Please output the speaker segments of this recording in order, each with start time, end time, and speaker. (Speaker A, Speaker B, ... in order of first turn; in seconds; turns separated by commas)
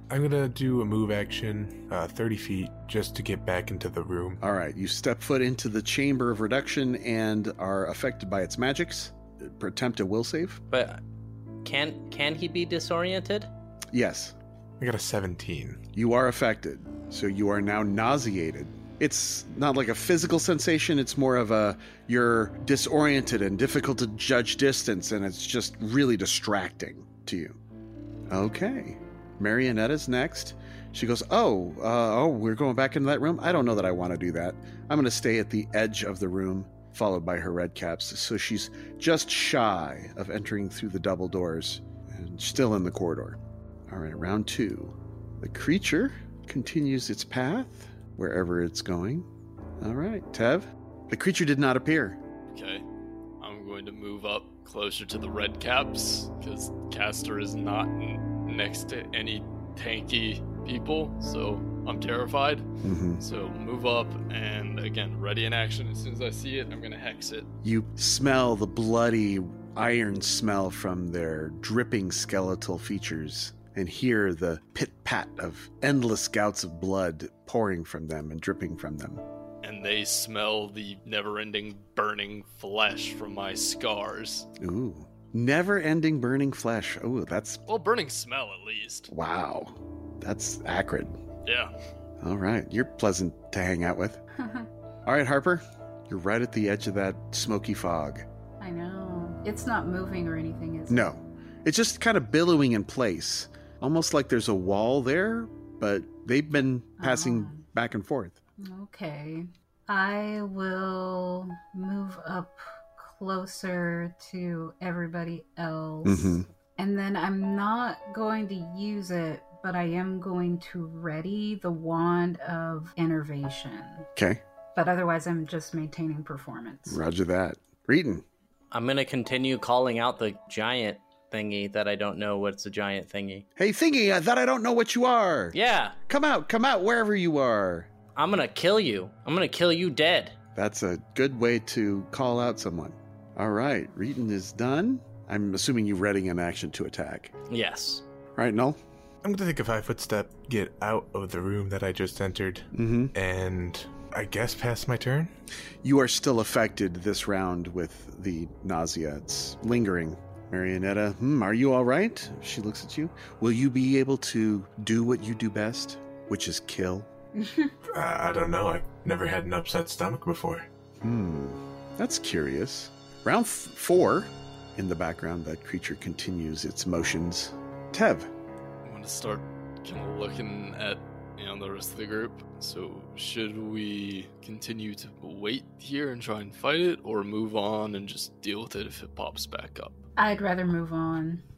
Speaker A: 0.1-4.4, Speaker B: 4.4-10.6, Speaker C: 10.7-11.0, Speaker C: 11.6-13.5, Speaker B: 13.9-14.4, Speaker A: 14.8-15.8, Speaker B: 15.9-27.6, Speaker B: 28.3-49.3, Speaker B: 49.8-52.2, Speaker D: 52.5-52.8, Speaker D: 53.4-62.7, Speaker B: 62.8-63.2, Speaker D: 63.2-67.5, Speaker B: 67.6-79.2, Speaker D: 79.6-84.5, Speaker B: 84.6-87.6, Speaker D: 87.7-89.1, Speaker B: 89.1-91.2, Speaker D: 91.5-91.7, Speaker B: 92.2-94.2, Speaker E: 94.4-94.7, Speaker B: 95.1-98.3, Speaker E: 98.6-101.1, Speaker B: 100.9-108.4, Speaker E: 107.0-107.6, Speaker E: 108.6-124.1, Speaker B: 116.0-116.5, Speaker B: 124.2-124.4, Speaker E: 124.8-127.0, Speaker B: 126.9-128.2, Speaker C: 128.7-133.4, Speaker B: 133.6-135.6, Speaker C: 135.5-136.0, Speaker B: 136.1-137.9, Speaker C: 138.2-140.4, Speaker B: 140.6-147.3, Speaker C: 147.5-148.0, Speaker B: 148.4-148.8, Speaker A: 149.2-155.3, Speaker B: 152.7-153.1, Speaker B: 155.8-167.1, Speaker E: 167.4-167.8, Speaker A: 167.9-170.7, Speaker B: 171.0-178.3, Speaker D: 178.8-190.0, Speaker E: 190.2-191.4